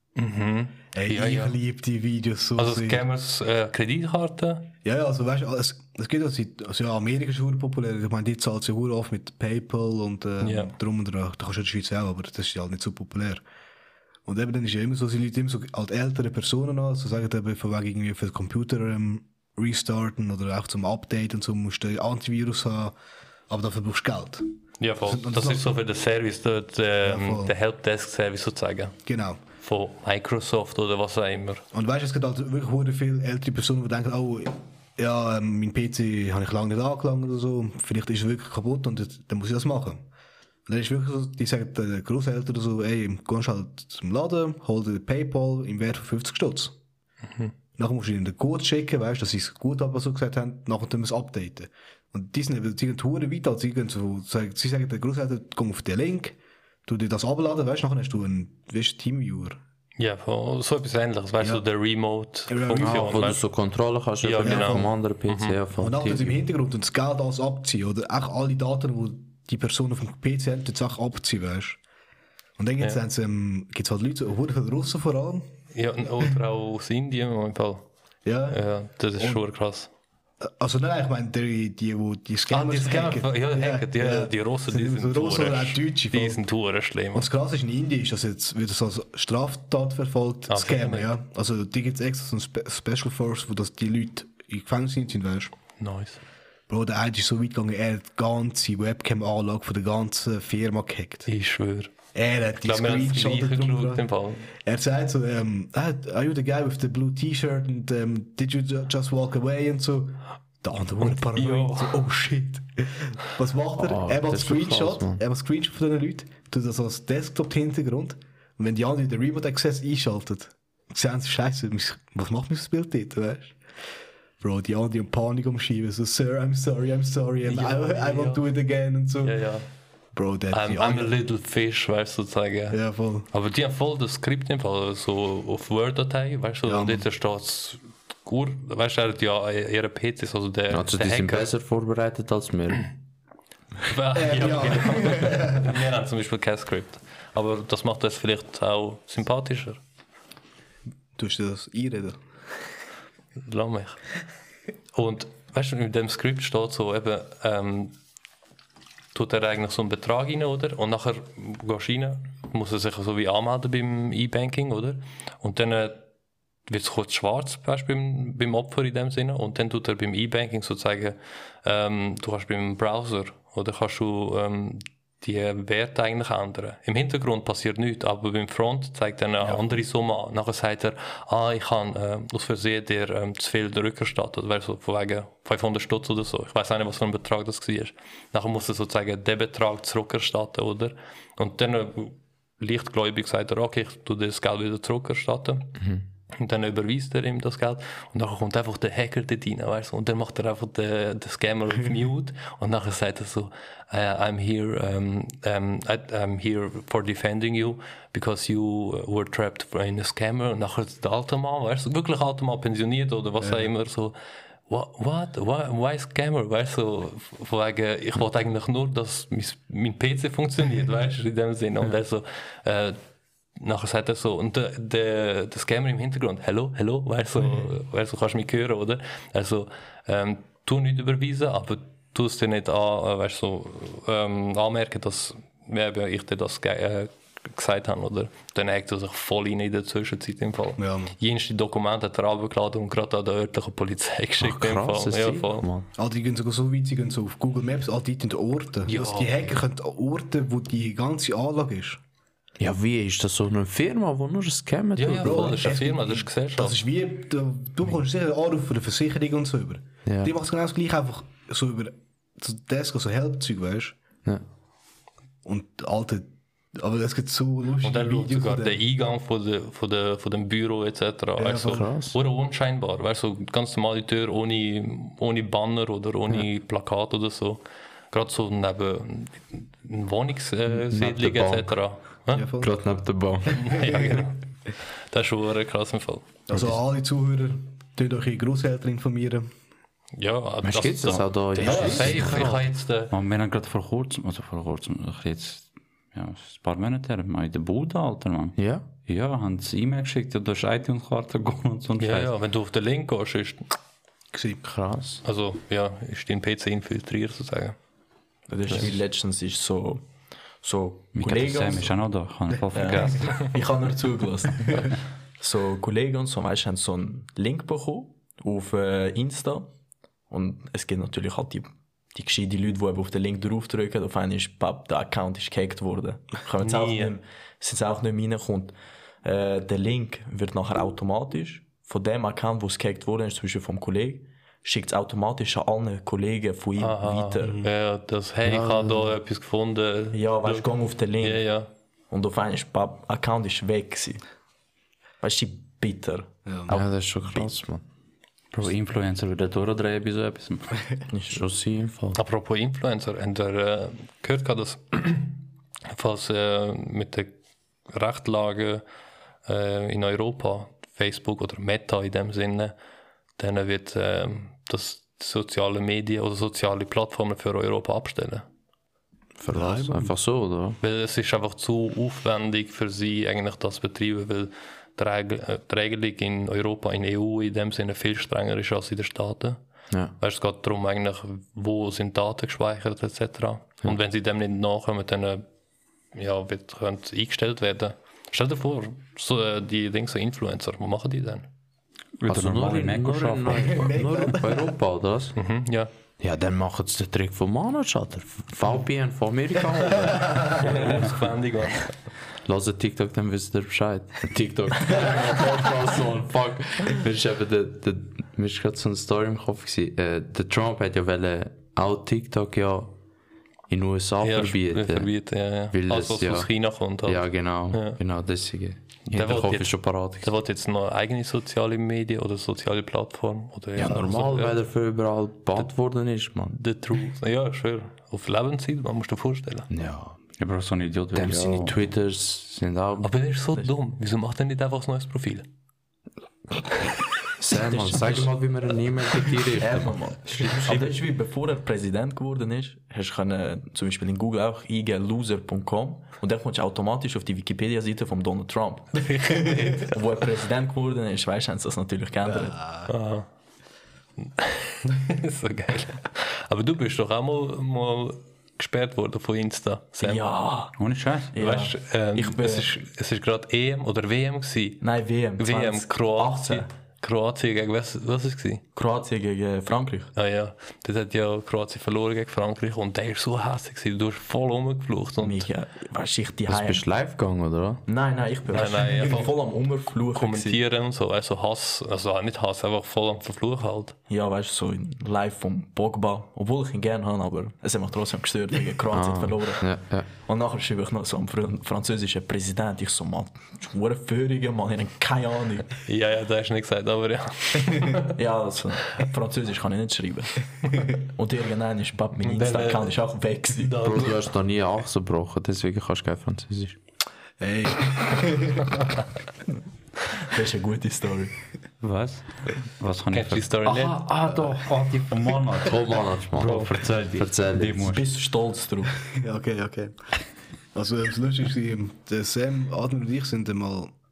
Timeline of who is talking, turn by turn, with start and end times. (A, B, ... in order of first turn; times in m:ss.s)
0:00.2-0:01.6 A
0:00.9-0:03.0 B
0:02.6-0:04.7 A
0:04.8-0:13.4 B
0:10.4-0:10.7 A
0:14.2-0:22.9 B
0:23.5-0:24.4 B
0:24.8-0:29.0 A
0:25.0-0:25.8 B
0:27.0-0:27.5 B
0:29.0-0:29.4 B
0:29.6-0:31.6 A
0:31.7-0:40.0 B
0:40.7-0:46.7 B
0:47.8-0:59.6 B
1:00.0-1:03.4 A
1:02.5-1:03.3 B
1:02.7-1:06.4 C
1:04.2-1:05.6 A
1:04.4-1:04.9 B
1:05.8-1:11.8 B
1:12.6-1:15.5 B
1:15.7-1:17.8 A
1:18.2-1:18.6 B
1:18.5-1:19.9 A
1:19.2-1:19.4 B
1:20.4-1:26.5 B
1:22.5-1:27.3 A
1:27.1-1:35.5 B
1:30.5-1:31.1 A
1:35.8-1:36.2 A
1:36.7-1:41.3 B
1:41.3-1:41.9 A
1:42.1-2:03.6 B
1:42.6-1:44.5 A
1:51.0-1:52.0 A
1:53.8-1:55.2 C
2:04.4-2:09.4 B
2:07.4-2:08.5 A
2:09.2-2:09.6 A
2:10.1-2:11.2 B
2:10.5-2:21.5 A
2:12.7-2:13.3 B
2:16.6-2:17.0 B
2:20.7-2:22.9 C
2:23.8-2:29.8 A
2:24.1-2:25.8 B
2:31.2-2:32.2 B
2:33.4-2:34.0 A
2:34.9-2:38.0 A
2:39.1-2:46.0 A
2:46.7-3:15.8 A
3:16.3-3:34.2 A
3:34.7-3:43.0 A
3:43.6-4:05.6 A
4:00.8-4:01.1 B
4:04.4-4:05.9 C
4:06.0-4:12.0 B
4:08.8-4:09.6 A
4:12.6-4:15.7 C
4:15.0-4:16.8 A
4:15.2-4:24.0 B
4:20.0-4:20.3 C
4:25.4-4:28.8 B
4:27.8-4:42.4 A
4:31.4-4:31.8 B
4:31.6-4:32.2 C
4:40.7-4:41.8 C
4:42.3-4:42.7 B
4:42.6-4:43.9 C
4:43.5-4:44.4 A
4:45.1-4:46.3 A
4:46.5-4:49.5 B
4:50.2-4:53.1 A
4:50.6-4:52.6 C
4:51.1-5:02.3 D
4:58.6-4:58.8 C
5:02.0-5:03.6 A
5:04.3-5:04.6 B
5:04.6-5:05.2 C
5:05.2-5:07.8 A
5:08.5-5:10.0 E
5:10.6-5:12.0 E
5:11.1-5:13.5 D
5:12.7-5:19.7 E
5:20.3-5:37.6 E
5:26.6-5:27.2 A
5:36.8-5:40.7 A
5:38.4-5:39.1 C
5:40.1-5:41.4 E
5:41.2-5:41.6 A
5:42.1-5:44.2 E
5:45.2-5:46.8 E
5:46.4-5:46.8 B
5:46.7-5:47.8 C
5:48.5-5:50.9 D
5:51.1-5:51.4 E
5:51.3-5:52.2 C
5:52.1-5:57.4 A
5:57.9-5:58.8 A
5:59.4-6:02.7 A
6:03.4-6:08.4 A
6:09.4-6:10.8 C
6:09.5-6:10.1 B
6:10.8-6:19.6 A
6:20.2-6:25.4 A
6:26.1-6:31.5 A
6:32.2-6:33.8 D
6:32.2-6:35.4 C
6:33.6-6:34.7 B
6:35.4-6:35.9 A
6:36.2-6:40.6 C
6:40.5-6:41.9 A
6:42.4-6:53.0 C
6:53.7-6:55.1 C
6:54.2-6:58.0 A
6:55.7-6:56.5 C
6:57.0-7:00.3 C
6:59.1-7:04.6 A
7:03.8-7:06.6 C
7:06.5-7:09.7 A
7:09.7-7:10.2 C
7:10.4-7:11.8 D
7:11.1-7:13.1 C
7:13.0-7:15.4 A
7:17.4-7:20.3 C
7:17.7-7:18.3 E
7:19.6-7:28.9 E
7:20.4-7:20.9 A
7:29.0-7:29.9 A
7:29.9-7:32.6 E
7:32.3-7:32.9 B
7:32.9-7:33.3 A
7:34.2-7:40.2 A
7:40.0-7:40.7 E
7:40.8-7:41.3 D
7:41.3-7:42.7 E
7:41.4-7:44.8 A
7:44.8-7:46.7 E
7:45.4-7:48.6 A
7:48.8-7:50.1 E
7:50.1-7:55.5 A
7:55.2-7:56.8 E
7:56.5-7:57.8 C
7:57.8-8:00.6 E
7:58.5-7:59.4 A
8:00.1-8:03.9 A
8:04.1-8:15.7 E
8:08.9-8:10.1 C
8:15.9-8:18.1 A
8:18.2-8:20.3 E
8:21.1-8:23.8 E
8:22.2-8:23.0 A
8:23.5-8:24.2 A
8:23.8-8:26.8 C
8:27.4-8:28.9 B
8:30.2-8:31.3 E
8:31.8-8:38.2 D
8:33.1-8:34.0 A
8:35.6-8:37.8 C
8:37.8-8:38.9 E
8:39.0-8:40.0 B
8:40.7-8:43.9 B